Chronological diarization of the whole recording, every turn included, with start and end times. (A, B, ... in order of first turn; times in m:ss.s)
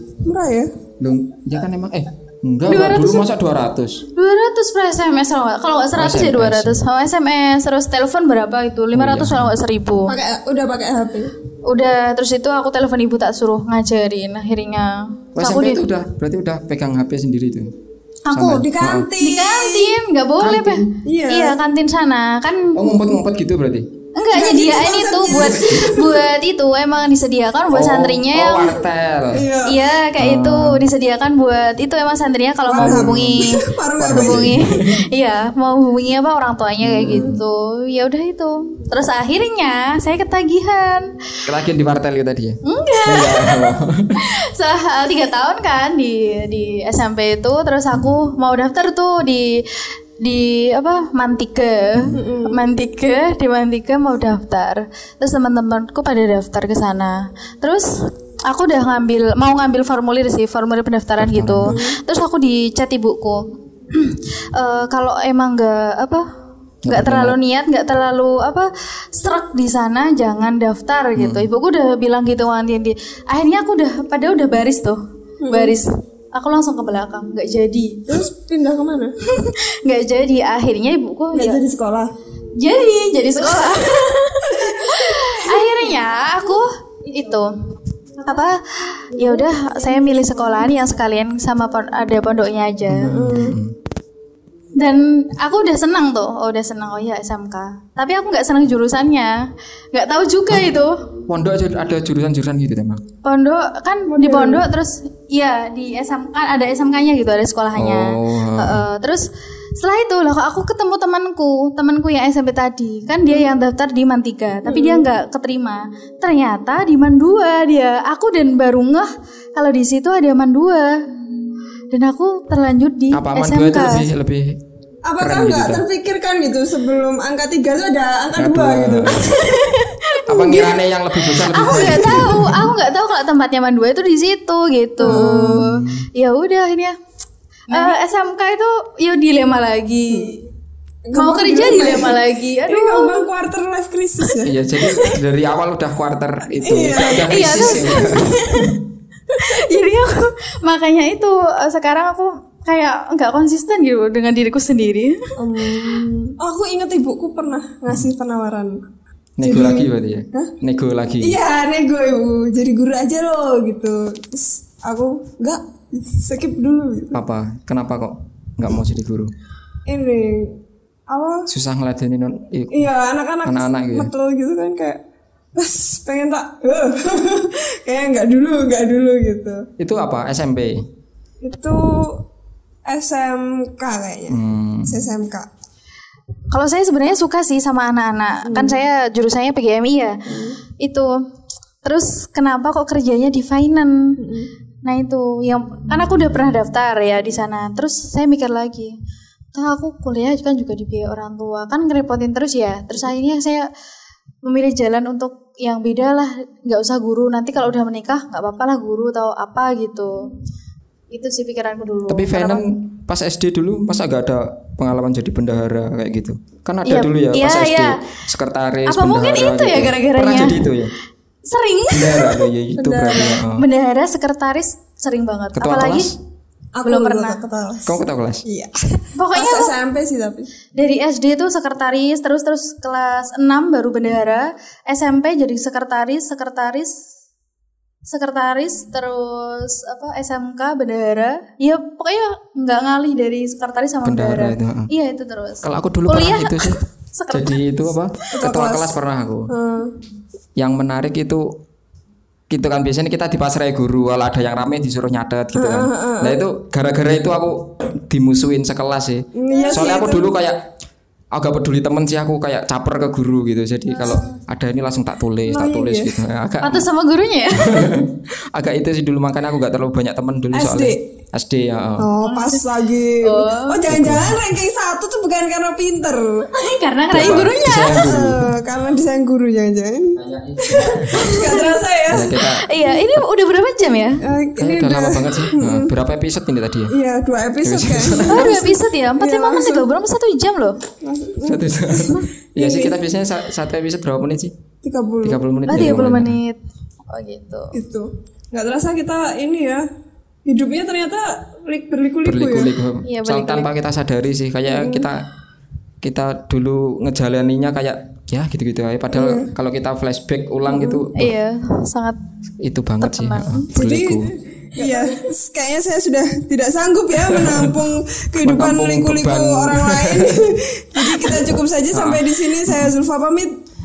0:00.2-0:00.7 A
0:01.0-0:04.0 B
0:02.7-0:03.2 C
0:04.1-0:10.1 C
0:05.9-0:06.8 B
0:08.9-0:09.6 B
0:10.0-0:11.3 A
0:11.7-0:15.9 C
0:15.4-0:17.7 B
0:18.3-0:18.7 C
0:18.3-0:19.1 B
0:18.4-0:19.9 A
0:19.2-0:23.1 C
0:20.4-0:20.9 B
0:21.0-0:21.6 A
0:22.7-0:23.9 B
0:24.1-0:28.8 C
0:24.3-0:26.2 A
0:27.7-0:29.4 B
0:29.3-0:29.8 A
0:29.6-0:41.1 C
0:30.2-0:30.8 B
0:32.7-0:34.6 A
0:32.8-0:34.9 B
0:36.8-0:37.4 B
0:41.5-0:44.2 B
0:42.6-0:57.9 C
0:52.2-0:52.6 A
0:58.5-1:06.2 C
1:01.2-1:01.7 B
1:01.6-1:02.0 A
1:06.8-1:07.4 B
1:06.9-1:18.1 C
1:11.2-1:11.5 B
1:15.4-1:15.8 A
1:18.1-1:19.1 A
1:19.2-1:21.6 C
1:21.3-1:22.1 A
1:22.6-1:27.5 C
1:23.6-1:26.0 A
1:28.2-1:33.3 C
1:29.2-1:30.7 A
1:32.9-1:33.8 B
1:33.0-1:33.6 A
1:34.8-1:39.4 C
1:39.9-1:41.0 C
1:41.3-1:43.0 B
1:43.2-1:49.2 C
1:44.1-1:44.7 A
1:47.7-1:48.8 B
1:49.8-2:01.0 C
1:54.6-1:55.1 A
2:01.9-2:04.1 C
2:03.1-2:04.6 B
2:05.0-2:09.2 A
2:05.2-2:05.8 B
2:08.4-2:09.3 B
2:09.1-2:16.9 C
2:10.3-2:12.7 B
2:15.0-2:15.6 A
2:15.0-2:16.1 B
2:17.7-2:20.4 C
2:20.1-2:20.4 A
2:21.1-2:25.2 A
2:21.1-2:23.3 C
2:24.4-2:28.8 B
2:26.6-2:28.2 A
2:27.0-2:28.8 C
2:29.3-2:35.2 C
2:29.3-2:29.6 A
2:35.4-2:38.8 A
2:39.4-2:41.4 B
2:39.4-2:40.5 A
2:41.2-2:47.2 A
2:47.1-2:49.3 B
2:49.9-2:50.6 A
2:51.1-2:51.5 A
2:51.5-2:52.9 B
2:52.7-2:55.0 A
2:53.4-2:54.1 B
2:55.6-2:59.7 A
2:59.8-3:00.8 B
3:01.4-3:02.2 A
3:02.8-3:05.5 A
3:04.3-3:05.1 B
3:06.5-3:11.2 C
3:08.4-3:08.8 A
3:10.2-3:10.6 A
3:11.8-3:14.2 C
3:14.2-3:14.5 A
3:14.8-3:18.9 C
3:19.5-3:23.7 C
3:24.4-3:30.3 C
3:31.1-3:32.6 C
3:32.1-3:40.9 B
3:36.8-3:37.9 C
3:38.9-3:40.6 C
3:41.4-3:42.4 C
3:41.9-3:43.6 B
3:42.8-3:43.4 A
3:43.5-3:46.1 C
3:45.6-3:46.2 B
3:46.8-3:50.5 A
3:46.8-3:47.4 C
3:47.8-3:48.4 B
3:49.1-3:49.7 C
3:50.8-3:57.1 C
3:58.0-4:07.6 C
4:04.0-4:04.9 B
4:05.6-4:06.8 B
4:07.3-4:09.5 B
4:08.3-4:09.0 A
4:09.5-4:09.9 A
4:10.6-4:11.6 B
4:12.5-4:20.6 B
4:15.5-4:16.4 A
4:19.3-4:20.3 A
4:19.5-4:19.8 C
4:21.3-4:26.8 B
4:25.5-4:26.1 A
4:26.6-4:27.9 C
4:27.6-4:32.1 B
4:30.5-4:31.0 A
4:32.0-4:36.5 A
4:32.2-4:32.6 C
4:33.2-4:33.8 C
4:33.9-4:34.4 B
4:36.5-4:38.1 C
4:37.1-4:38.5 B
4:37.2-4:42.4 A
4:40.2-4:43.2 B
4:41.1-4:41.7 C
4:42.6-4:44.2 C
4:44.2-4:46.0 A
4:44.6-4:46.9 B
4:46.9-4:49.8 A
4:47.6-4:48.5 B
4:48.3-4:50.8 C
4:51.0-4:53.0 A
4:51.4-4:54.5 B
4:54.8-4:55.4 A
4:55.2-4:56.4 B
4:55.7-4:57.8 C
4:57.7-4:59.9 A
5:00.4-5:02.7 A
5:02.2-5:05.2 B
5:03.0-5:03.7 C
5:04.7-5:05.1 A
5:06.0-5:11.3 B
5:09.1-5:09.5 A
5:10.7-5:11.0 A
5:11.1-5:12.2 C
5:12.6-5:14.3 B
5:13.0-5:13.7 C
5:13.7-5:23.5 A
5:14.8-5:15.1 C
5:17.1-5:17.9 B
5:18.4-5:23.0 B